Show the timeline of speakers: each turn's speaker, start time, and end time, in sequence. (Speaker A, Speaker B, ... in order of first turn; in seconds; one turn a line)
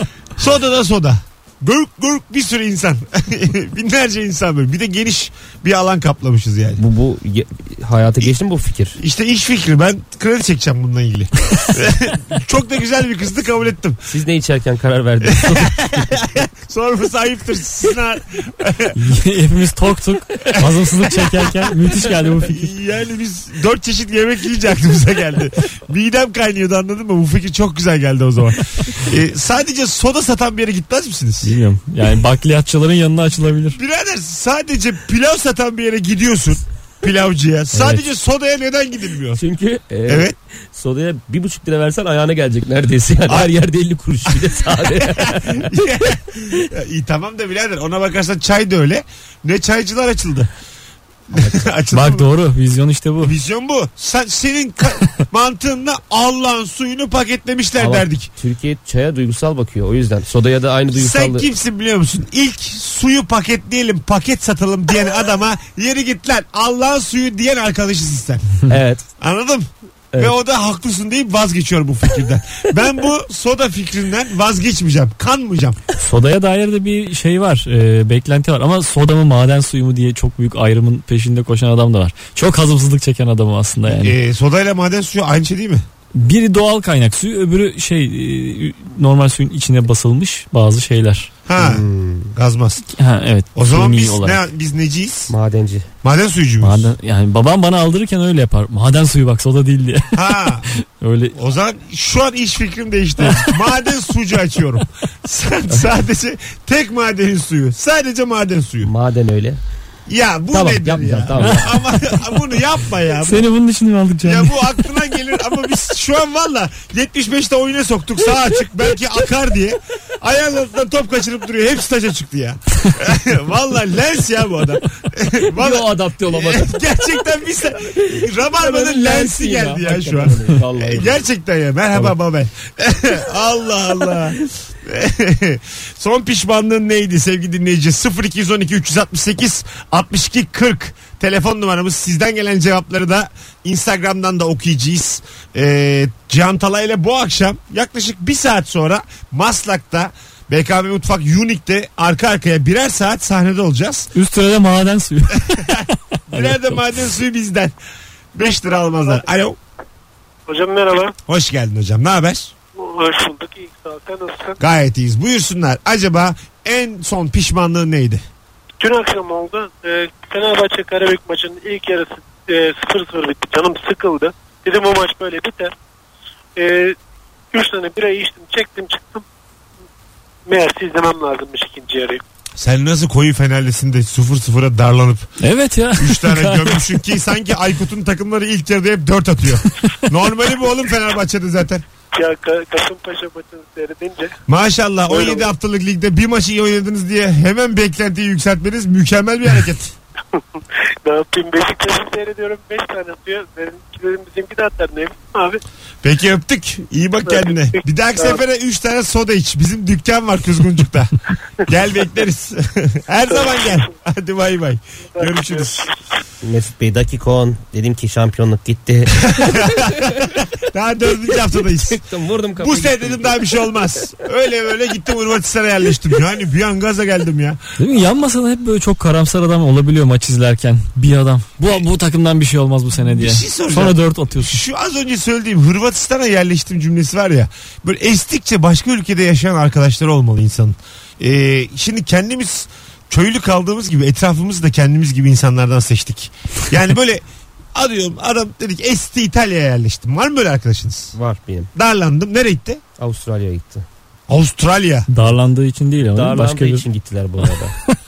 Speaker A: 0.4-6.8
Speaker B: 6.8-9.0
Speaker A: 9.0-14.0
Speaker B: 14.1-16.2
Speaker A: 15.2-19.0
Speaker C: 18.9-22.7
Speaker A: 20.5-21.4
Speaker A: 22.4-31.5
Speaker C: 31.4-33.8
Speaker A: 33.8-39.4
Speaker C: 37.7-38.0
Speaker B: 39.4-46.7
Speaker A: 40.1-40.4
Speaker A: 43.3-43.5
Speaker A: 44.3-50.5
Speaker A: 51.3-52.3
Speaker B: 51.3-51.7
Speaker C: 51.9-53.4
Speaker A: 53.2-58.3
Speaker B: 57.8-61.5
Speaker A: 60.9-68.5
Speaker B: 68.7-69.0
Speaker A: 69.2-75.8
Speaker C: 76.0-84.2
Speaker A: 83.9-85.8
Speaker C: 86.1-91.3
Speaker A: 91.5-92.8
Speaker B: 91.6-92.3
Speaker C: 92.9-94.4
Speaker A: 93.5-95.3
Speaker B: 95.3-95.9
Speaker A: 96.0-96.9
Speaker C: 96.6-101.4
Speaker A: 100.1-100.7
Speaker A: 101.3-108.9
Speaker C: 103.2-103.5
Speaker B: 108.8-109.6
Speaker A: 110.1-113.5
Speaker B: 110.5-111.7
Speaker C: 111.4-111.7
Speaker C: 113.2-114.8
Speaker A: 114.2-154.1
Speaker B: 125.5-126.8
Speaker B: 127.9-131.2
Speaker C: 154.1-156.8
Speaker A: 156.3-157.7
Speaker A: 158.3-159.6
Speaker D: 158.5-159.2
Speaker D: 160.5-161.2
Speaker A: 161.3-162.5
Speaker D: 162.8-164.6
Speaker A: 164.6-168.2
Speaker D: 168.8-175.7
Speaker D: 176.6-177.0
Speaker D: 177.5-179.2
Speaker D: 180.5-182.2
Speaker A: 182.6-185.3
Speaker C: 185.4-186.9
Speaker A: 186.0-191.8
Speaker D: 192.2-194.3
Speaker A: 194.5-199.9
Speaker D: 195.1-195.4
Speaker D: 200.4-205.6
Speaker A: 206.0-215.9
Speaker D: 207.3-208.4
Speaker D: 213.3-213.8
Speaker D: 215.2-216.0
Speaker B: 216.4-220.2
Speaker A: 219.2-222.1
Speaker B: 221.6-223.6
Speaker A: 222.6-227.6
Speaker C: 227.8-234.6
Speaker A: 233.1-251.2
Speaker B: 251.1-251.7
Speaker A: 251.8-252.8
Speaker B: 253.0-253.9
Speaker A: 254.3-255.1
Speaker C: 255.1-256.9
Speaker B: 256.1-257.8
Speaker C: 257.4-257.9